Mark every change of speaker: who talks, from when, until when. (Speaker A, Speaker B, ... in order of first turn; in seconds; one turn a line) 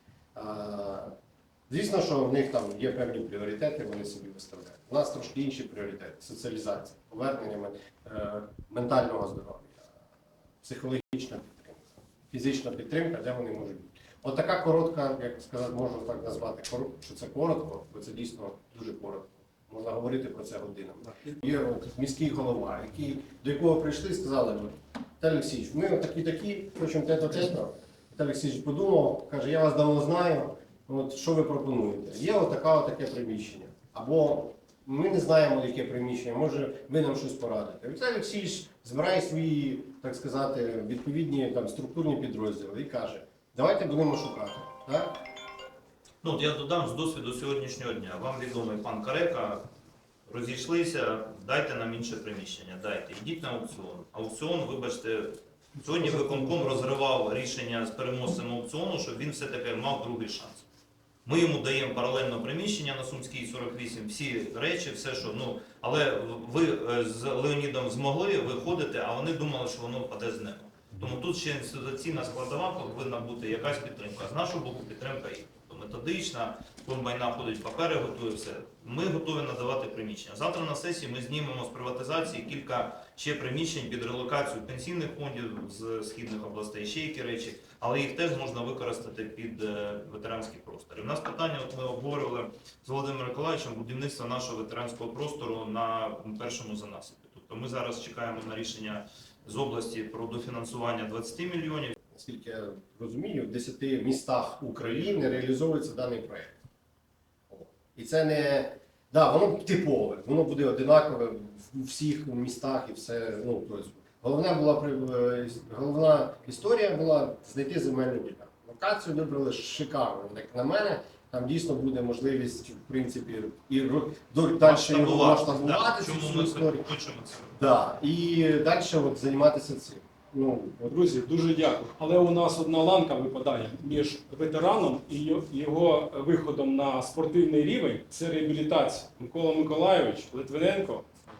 Speaker A: 0.3-1.1
Speaker A: 1.7-9.8
Speaker A: 10.6-45.1
Speaker B: 46.2-49.6
Speaker B: 50.3-60.6
Speaker B: 61.2-102.0
Speaker A: 102.1-106.5
Speaker A: 107.5-126.9
Speaker B: 124.6-127.6
Speaker A: 127.6-130.9
Speaker C: 130.8-141.1